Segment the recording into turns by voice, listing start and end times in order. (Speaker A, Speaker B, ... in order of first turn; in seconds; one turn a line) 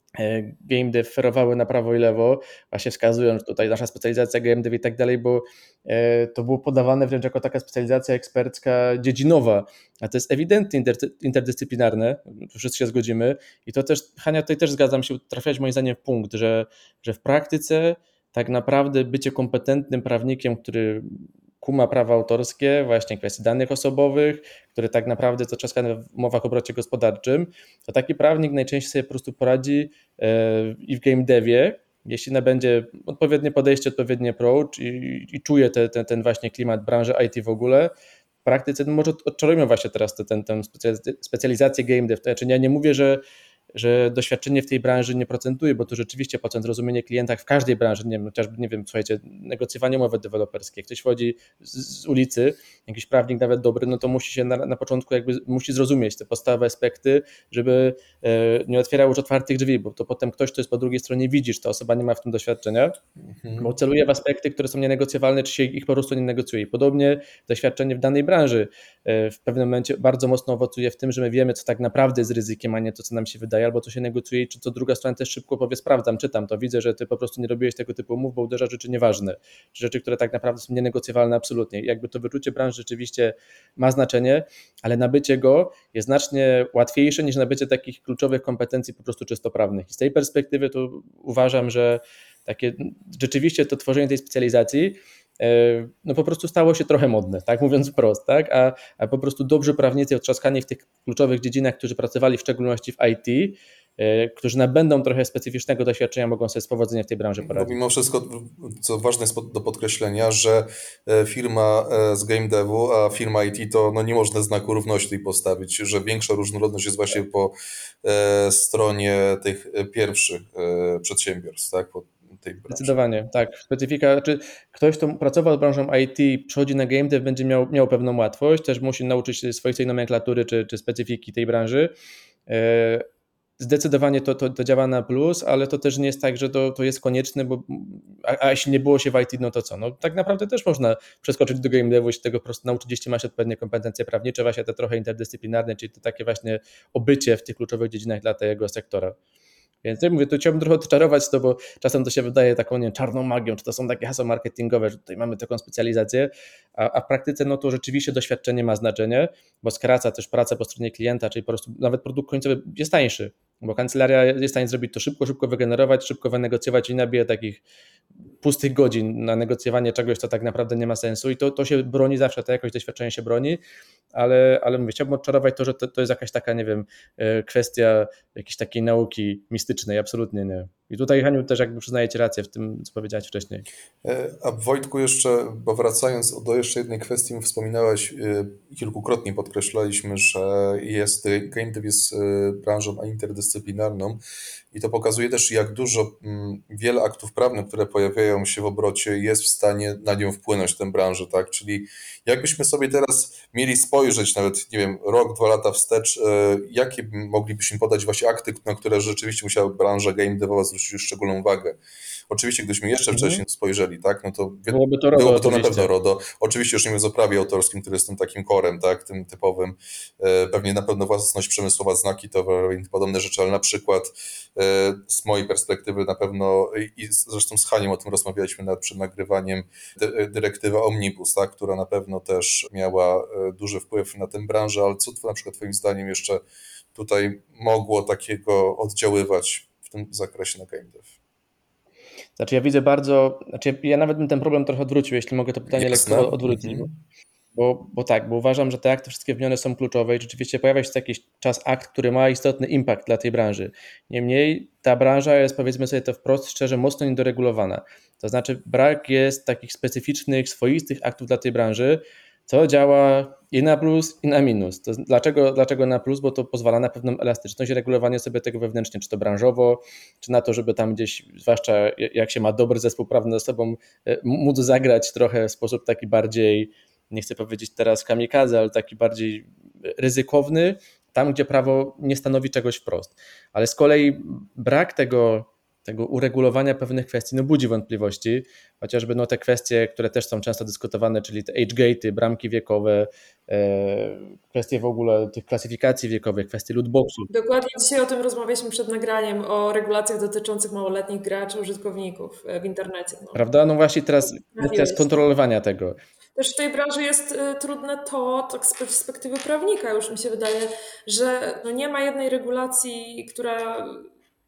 Speaker A: 0.2-37.9
Speaker A: 38.4-43.2
Speaker A: 43.7-63.0
Speaker B: 63.2-63.7
Speaker A: 63.6-107.7
Speaker B: 107.4-122.9
Speaker A: 122.7-131.9
Speaker A: 132.5-133.1
Speaker A: 133.6-149.2
Speaker A: 149.8-167.6
Speaker A: 168.4-173.6
Speaker A: 174.1-183.7
Speaker B: 184.0-194.2
Speaker B: 194.7-211.8
Speaker B: 212.3-236.4
Speaker A: 213.1-213.4
Speaker A: 214.7-215.9
Speaker B: 236.9-241.1
Speaker A: 242.4-246.9
Speaker B: 245.7-246.9
Speaker A: 247.5-297.3
Speaker C: 297.3-303.4
Speaker A: 303.3-306.0
Speaker C: 304.5-305.1
Speaker C: 306.3-314.1